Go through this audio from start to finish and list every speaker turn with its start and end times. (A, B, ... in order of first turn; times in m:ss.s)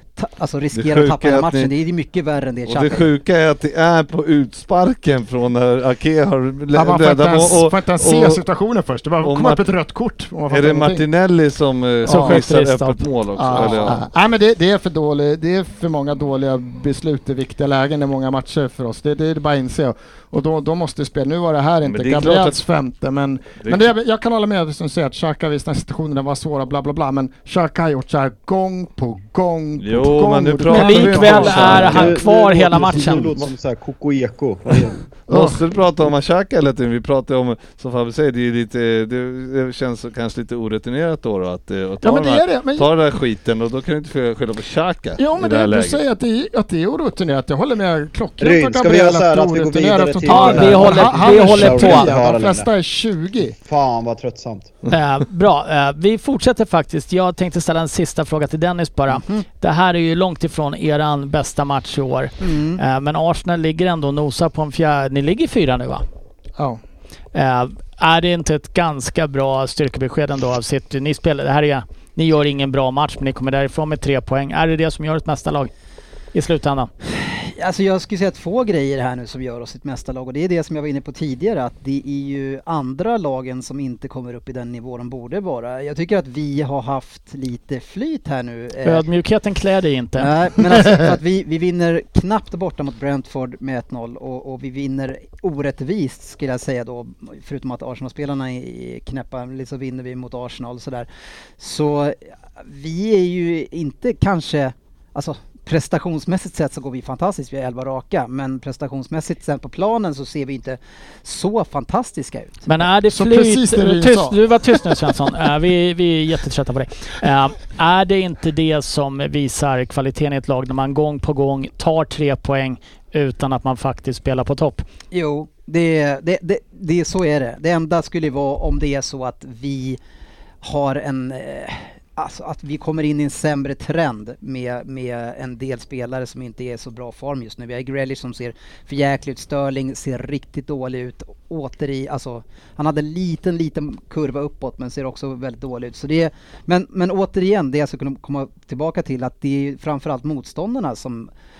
0:00.2-0:03.1 A
0:00.7-0:01.7 B
0:02.6-0:08.4 B
0:06.7-0:11.0 C
0:09.2-0:09.6 B
0:10.5-0:14.0 B
0:12.0-0:13.9 D
0:12.1-0:12.4 C
0:13.4-0:32.2 C
0:21.8-0:22.6 B
0:23.6-0:23.9 B
0:29.8-0:32.2 B
0:30.7-0:33.3 D
0:31.4-0:35.1 E
0:32.7-0:33.3 C
0:35.3-0:35.6 C
0:35.3-0:46.0 B
0:42.0-0:42.9 C
0:45.2-0:53.6 C
0:48.4-0:52.7 E
0:50.2-0:52.1 D
0:53.6-0:54.7 E
0:54.9-1:06.0 D
0:59.1-0:59.4 A
1:02.4-1:02.8 A
1:07.3-1:15.7 D
1:16.3-1:16.9 D
1:17.1-1:29.0 A
1:28.8-1:30.3 D
1:30.2-1:41.1 A
1:41.6-1:52.6 A
1:52.6-2:04.8 D
1:53.1-1:55.2 C
2:05.1-2:10.0 A
2:10.6-2:31.3 A